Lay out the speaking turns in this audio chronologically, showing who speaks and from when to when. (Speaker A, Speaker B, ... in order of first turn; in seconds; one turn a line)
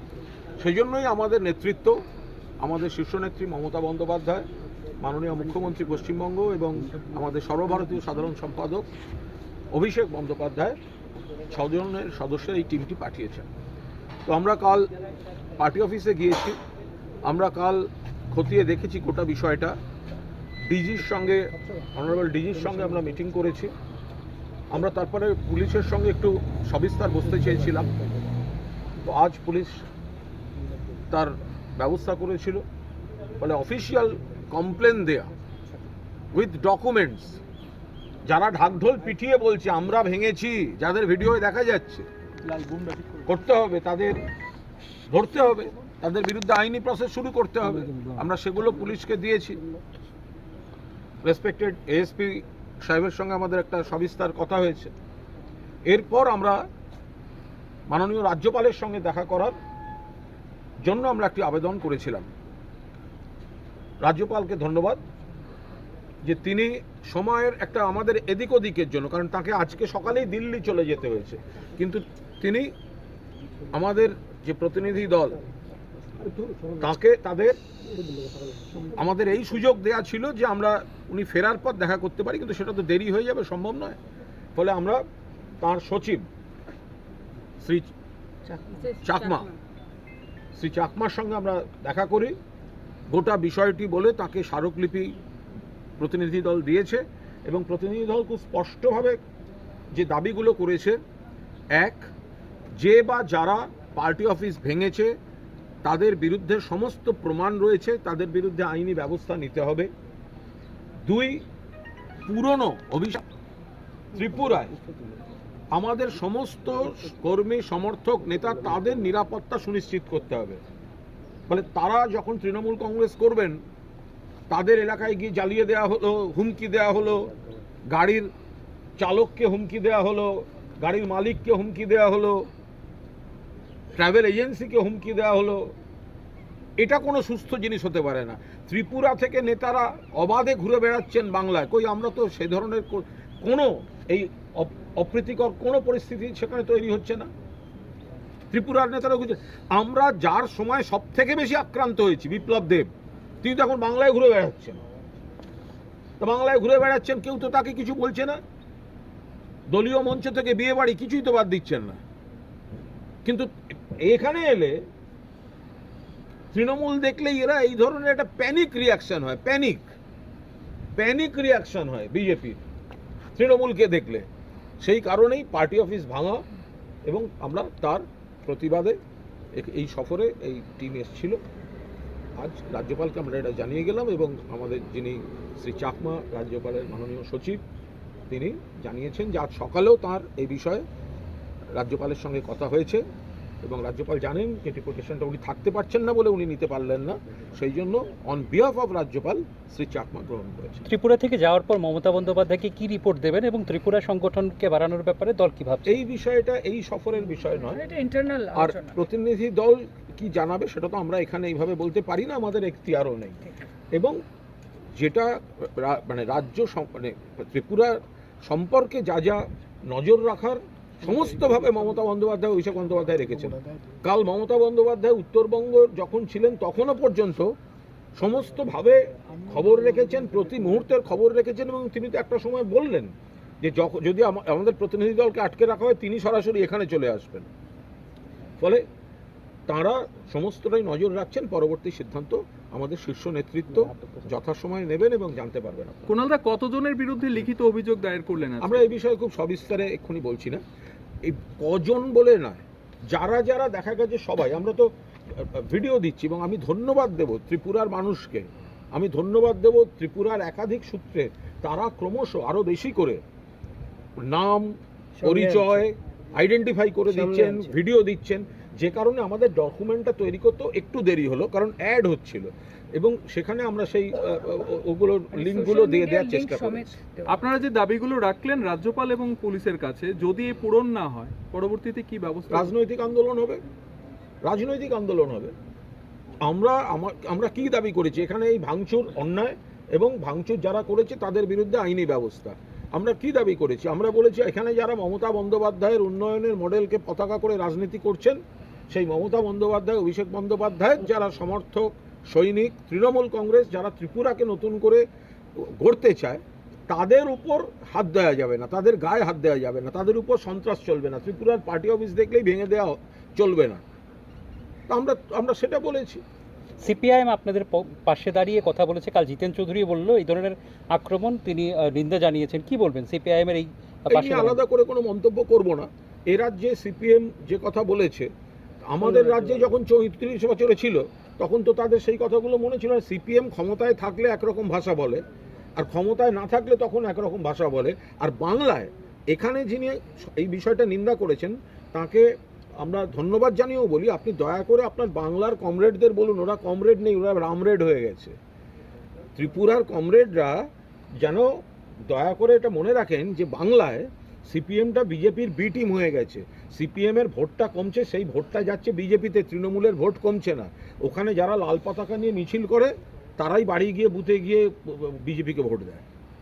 Speaker A: 0.6-2.0
Speaker A: 2.6-4.5
Speaker A: 5.0-8.9
Speaker A: 9.7-10.8
Speaker A: 11.5-13.5
Speaker A: 14.2-14.8
Speaker A: 15.6-16.6
Speaker A: 17.2-19.8
Speaker A: 20.7-23.7
Speaker A: 24.7-27.9
Speaker A: 29.0-29.9
Speaker A: 31.1-32.6
Speaker A: 33.4-35.3
Speaker A: 36.3-37.4
Speaker A: 38.2-42.1
Speaker B: 42.4-43.2
Speaker A: 43.2-44.2
Speaker A: 45.1-49.6
Speaker A: 51.2-54.9
Speaker A: 55.9-56.6
Speaker A: 57.9-59.5
Speaker A: 60.8-62.3
Speaker A: 64.0-65.0
Speaker A: 66.2-72.7
Speaker A: 73.7-75.4
Speaker A: 76.8-77.6
Speaker A: 78.9-84.0
Speaker A: 84.5-85.0
Speaker A: 85.6-86.2
Speaker A: 87.6-87.9
Speaker C: 88.5-88.8
Speaker A: 89.0-89.5
Speaker A: 90.5-92.3
Speaker A: 93.1-95.1
Speaker A: 96.0-99.2
Speaker A: 99.9-101.0
Speaker A: 101.8-102.1
Speaker A: 102.8-105.1
Speaker A: 105.8-109.9
Speaker A: 111.0-111.4
Speaker A: 112.2-113.2
Speaker A: 114.1-114.8
Speaker A: 115.7-120.6
Speaker A: 121.5-123.6
Speaker A: 124.5-127.3
Speaker A: 127.9-128.3
Speaker A: 129.0-132.5
Speaker A: 133.9-135.7
Speaker A: 136.8-147.3
Speaker A: 148.5-152.9
Speaker A: 153.4-154.8
Speaker A: 156.2-158.4
Speaker A: 159.7-162.0
Speaker A: 163.2-164.8
Speaker A: 166.5-169.9
Speaker A: 170.9-172.6
Speaker A: 173.3-174.3
Speaker A: 174.8-176.4
Speaker A: 177.1-179.0
Speaker A: 179.5-181.4
Speaker A: 182.4-187.6
Speaker A: 188.3-190.8
Speaker A: 191.8-193.0
Speaker A: 193.6-200.9
Speaker D: 200.8-205.9
Speaker A: 205.8-207.8
Speaker C: 207.7-209.0
Speaker A: 208.5-213.4
Speaker A: 213.9-214.2
Speaker A: 214.9-227.5
Speaker A: 228.2-237.5
Speaker A: 239.7-246.1
Speaker B: 246.1-248.8
Speaker A: 248.6-250.6
Speaker A: 251.2-263.2
Speaker A: 264.2-277.0
Speaker D: 265.2-265.7
Speaker D: 267.1-267.6
Speaker C: 275.3-277.4
Speaker B: 277.3-282.7
Speaker A: 282.5-283.6
Speaker A: 284.4-285.5
Speaker A: 286.4-298.4
Speaker A: 298.9-305.0
Speaker A: 305.6-313.8
Speaker A: 314.9-316.2
Speaker D: 316.8-324.6
Speaker A: 324.1-328.3
Speaker A: 328.8-335.2
Speaker A: 335.8-342.2
Speaker A: 342.8-348.4
Speaker A: 349.4-350.7
Speaker A: 351.2-351.5
Speaker A: 352.1-366.0